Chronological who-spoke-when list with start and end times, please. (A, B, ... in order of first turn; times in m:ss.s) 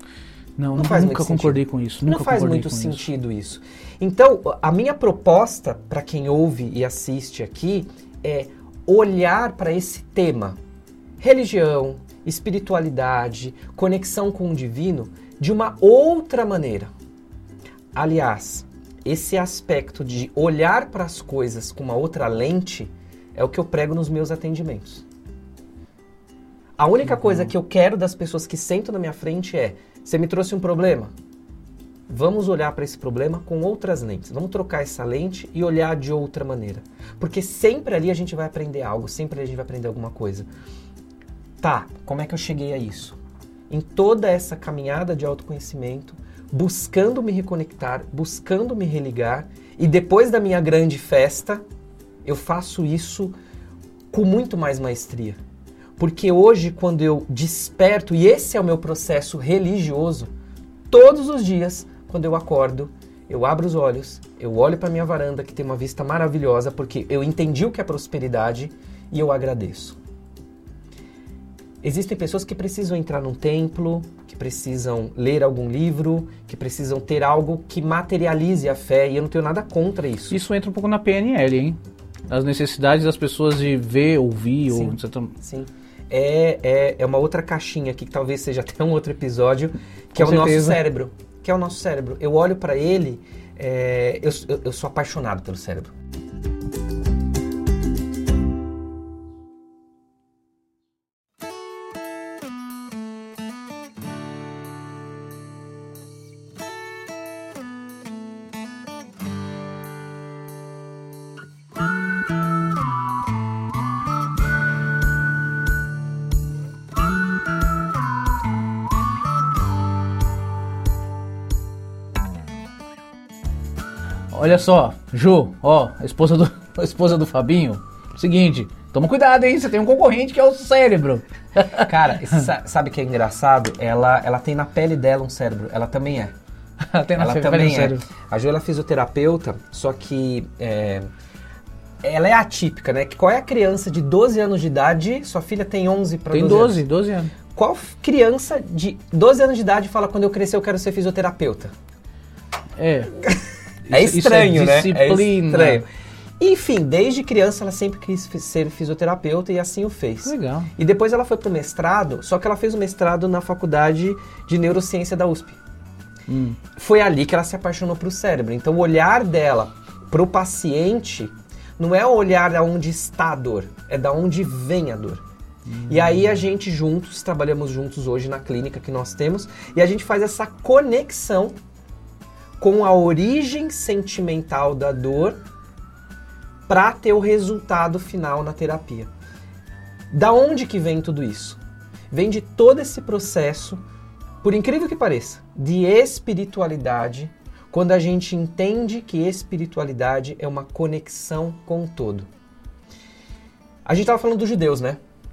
0:00.6-0:03.0 A
0:00.7-0:10.6 B
0:11.2-0:16.9 B
0:17.9-0:25.0 B
0:26.8-0:31.1 B
0:27.1-0:27.5 A
0:32.1-0:40.5 B
0:41.6-0:43.2 B
0:43.7-0:51.6 B
0:52.2-0:53.3 B
0:54.1-0:55.4 B
0:56.0-1:00.3 B
1:00.9-1:10.0 B
1:11.8-1:20.4 B
1:20.3-1:25.3 A
1:24.7-1:35.9 B
1:30.2-1:30.8 A
2:04.3-2:11.9 A
2:11.8-2:16.3 B
2:16.8-2:18.0 A
2:17.2-2:21.1 B
2:22.0-2:26.8 B
2:26.3-2:27.3 A
2:27.5-2:31.7 B
2:32.8-2:33.2 A
2:33.9-2:35.8 A
2:33.9-2:35.9 B
2:36.4-2:45.6 B
2:40.2-2:40.7 A
2:46.3-2:46.6 A
2:46.7-2:55.2 B
2:55.7-2:56.3 A
2:55.9-3:01.6 B
3:02.6-3:05.4 B
3:06.7-3:09.1 B
3:10.1-3:11.6 B
3:12.1-3:13.8 B
3:14.4-3:22.3 B
3:23.8-3:25.0 B